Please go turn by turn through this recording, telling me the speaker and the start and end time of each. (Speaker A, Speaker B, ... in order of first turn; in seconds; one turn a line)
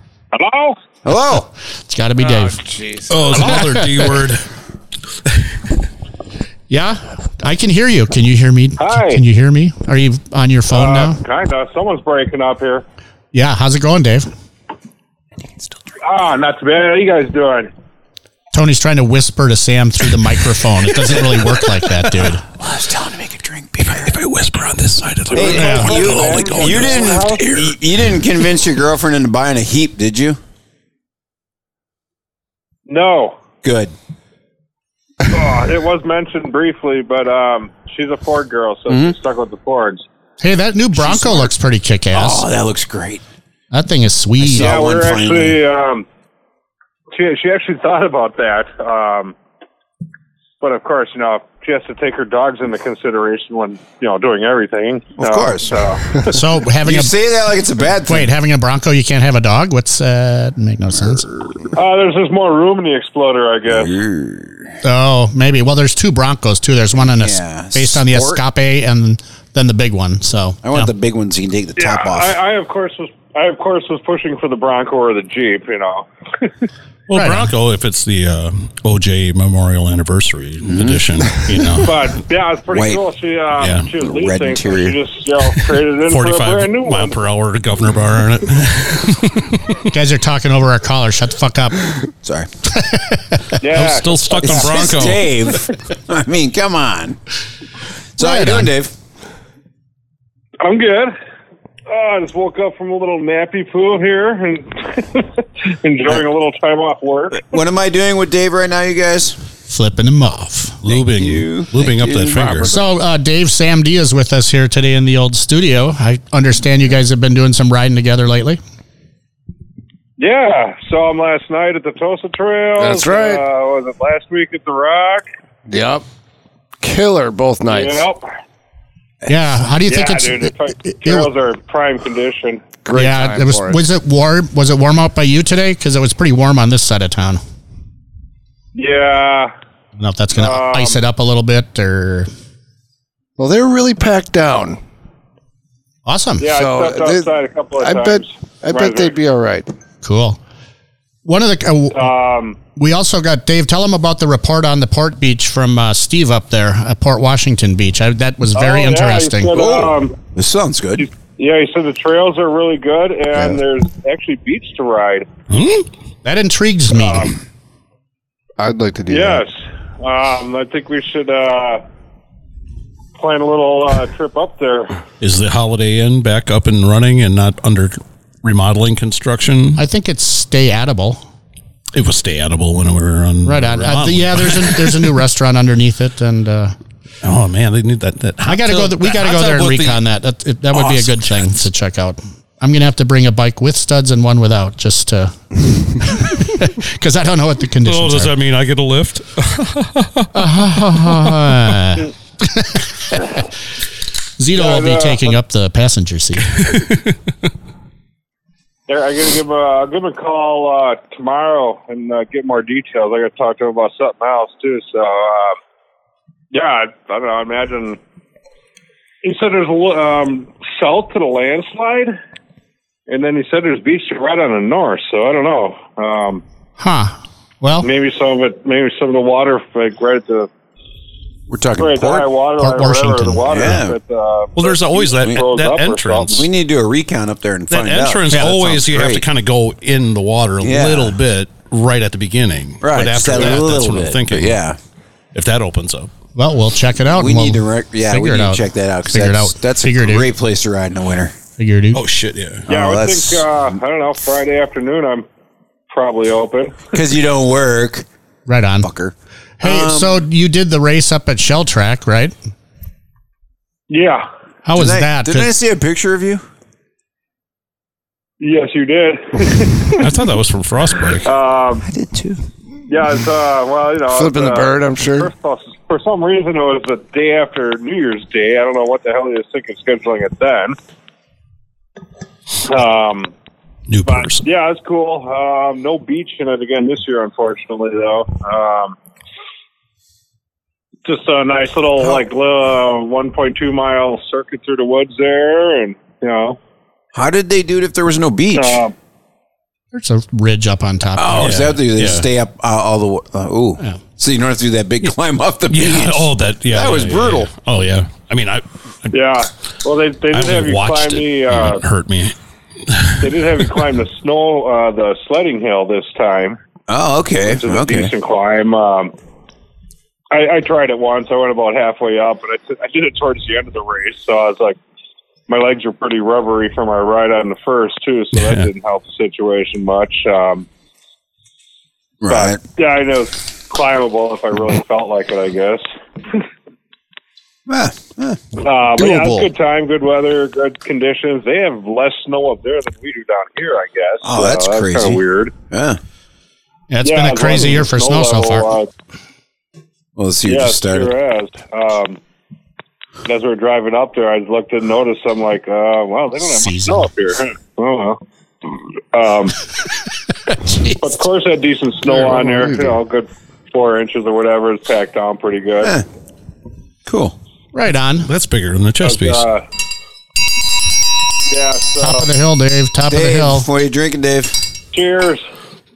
Speaker A: 0.3-0.8
Speaker B: 1.0-1.5
Speaker C: 1.3-2.6
Speaker D: 2.2-3.4
Speaker E: 3.1-4.5
Speaker C: 3.3-4.1
Speaker C: 6.7-11.2
Speaker A: 8.8-9.2
Speaker A: 10.7-12.8
Speaker C: 13.3-14.3
Speaker A: 16.0-17.7
Speaker C: 18.5-22.4
Speaker B: 22.5-24.2
Speaker E: 23.9-27.8
Speaker A: 25.3-27.4
Speaker B: 25.3-30.4
Speaker C: 25.6-25.9
Speaker A: 32.9-33.4
Speaker B: 33.6-33.9
Speaker A: 35.3-40.0
Speaker B: 38.9-39.1
Speaker C: 40.4-42.4
Speaker B: 40.9-41.5
Speaker B: 42.1-43.2
Speaker C: 43.7-44.7
Speaker B: 44.4-45.6
Speaker A: 44.5-46.0
Speaker A: 47.1-49.4
Speaker A: 50.6-56.4
Speaker B: 55.2-56.0
Speaker C: 56.3-57.1
Speaker B: 56.8-58.3
Speaker C: 58.1-61.2
Speaker B: 61.0-61.7
Speaker A: 61.7-64.0
Speaker B: 63.7-64.8
Speaker C: 64.8-70.9
Speaker B: 67.2-68.4
Speaker B: 70.6-72.3
Speaker A: 71.8-76.5
Speaker E: 77.1-82.2
Speaker C: 77.1-77.5
Speaker B: 80.6-81.3
Speaker A: 81.8-87.2
Speaker B: 82.7-83.0
Speaker E: 83.6-83.9
Speaker B: 83.9-85.0
Speaker E: 86.1-89.8
Speaker C: 89.8-91.9
Speaker B: 92.2-92.5
Speaker C: 92.7-93.5
Speaker A: 93.6-94.9
Speaker E: 93.7-95.2
Speaker B: 94.4-97.2
Speaker B: 98.2-98.9
Speaker C: 98.2-98.7
Speaker A: 100.6-101.2
Speaker A: 101.9-107.5
Speaker B: 107.3-109.4
Speaker C: 109.7-110.8
Speaker E: 110.8-112.7
Speaker B: 110.8-112.8
Speaker C: 112.7-118.6
Speaker A: 120.2-125.2
Speaker D: 122.8-123.4
Speaker D: 125.7-126.0
Speaker D: 126.8-128.0
Speaker A: 127.7-128.3
Speaker C: 129.3-131.3
Speaker A: 129.9-132.6
Speaker D: 132.8-133.8
Speaker C: 132.9-137.4
Speaker A: 138.7-139.5
Speaker C: 140.0-142.3
Speaker A: 140.3-141.0
Speaker D: 143.4-144.8
Speaker C: 146.1-146.5
Speaker A: 146.4-149.2
Speaker D: 146.5-149.7
Speaker C: 150.0-150.4
Speaker C: 151.2-152.0
Speaker A: 151.9-152.6
Speaker C: 152.7-159.7
Speaker A: 158.5-160.2
Speaker B: 159.5-161.1
Speaker A: 161.0-165.3
Speaker E: 165.5-165.9
Speaker C: 166.2-167.3
Speaker A: 166.9-167.3
Speaker D: 168.6-169.4
Speaker A: 169.1-171.8
Speaker A: 173.2-175.0
Speaker E: 175.2-179.8
Speaker C: 179.8-181.2
Speaker E: 181.9-185.2
Speaker C: 183.4-186.8
Speaker E: 187.2-190.0
Speaker C: 188.4-198.3
Speaker E: 190.7-191.5
Speaker E: 197.8-200.3
Speaker C: 200.3-203.4
Speaker E: 201.0-201.3
Speaker C: 204.4-206.7
Speaker A: 204.5-205.3
Speaker E: 206.6-207.1
Speaker A: 208.9-215.6
Speaker A: 216.5-218.0
Speaker A: 219.2-222.2
Speaker A: 223.1-226.4
Speaker C: 226.8-227.8
Speaker A: 227.8-230.5
Speaker B: 231.5-232.3
Speaker A: 231.8-236.4
Speaker C: 232.6-233.8
Speaker B: 233.5-234.0
Speaker E: 234.6-236.5
Speaker B: 236.3-239.2
Speaker E: 237.7-244.6
Speaker B: 240.6-241.2
Speaker B: 242.8-244.8
Speaker E: 245.3-246.1
Speaker C: 246.3-250.3
Speaker B: 247.1-251.3
Speaker C: 251.6-252.0
Speaker E: 251.9-252.7
Speaker B: 252.7-253.4
Speaker A: 252.7-255.2
Speaker A: 255.9-256.9
Speaker B: 256.9-258.1
Speaker C: 258.5-258.9
Speaker B: 258.8-260.2
Speaker C: 259.6-262.3
Speaker A: 263.9-264.3
Speaker C: 264.6-265.5
Speaker B: 264.7-266.4
Speaker A: 268.4-270.1
Speaker E: 270.0-271.3
Speaker A: 271.2-271.9
Speaker B: 271.9-272.4
Speaker A: 272.9-280.8
Speaker D: 274.1-275.3
Speaker A: 282.6-283.3
Speaker E: 283.9-284.4
Speaker A: 284.1-289.0
Speaker A: 291.0-296.6
Speaker B: 297.1-298.8
Speaker A: 298.5-298.9
Speaker C: 299.9-301.6
Speaker B: 301.1-307.5
Speaker E: 301.3-302.3
Speaker E: 305.7-309.1
Speaker A: 309.1-311.8
Speaker E: 310.3-312.3
Speaker E: 312.9-313.2
Speaker A: 313.2-316.6
Speaker B: 316.9-318.1
Speaker A: 317.5-319.1
Speaker A: 320.3-324.8
Speaker A: 325.5-330.7
Speaker E: 328.3-328.7
Speaker B: 332.2-332.6
Speaker A: 332.3-336.4
Speaker B: 337.7-338.4
Speaker A: 338.6-345.5
Speaker D: 338.9-339.5
Speaker B: 344.2-346.0
Speaker C: 346.9-348.7
Speaker A: 347.0-348.9
Speaker B: 350.1-351.1
Speaker A: 350.5-352.2
Speaker A: 353.2-359.6
Speaker C: 356.4-357.1
Speaker C: 360.5-361.1
Speaker A: 361.0-365.9
Speaker D: 362.2-363.0
Speaker B: 365.8-366.1
Speaker B: 367.1-367.4
Speaker C: 367.7-368.3
Speaker E: 368.2-369.4
Speaker A: 369.0-369.6
Speaker A: 371.5-372.3
Speaker C: 372.0-373.6
Speaker B: 373.1-374.6
Speaker A: 374.9-375.5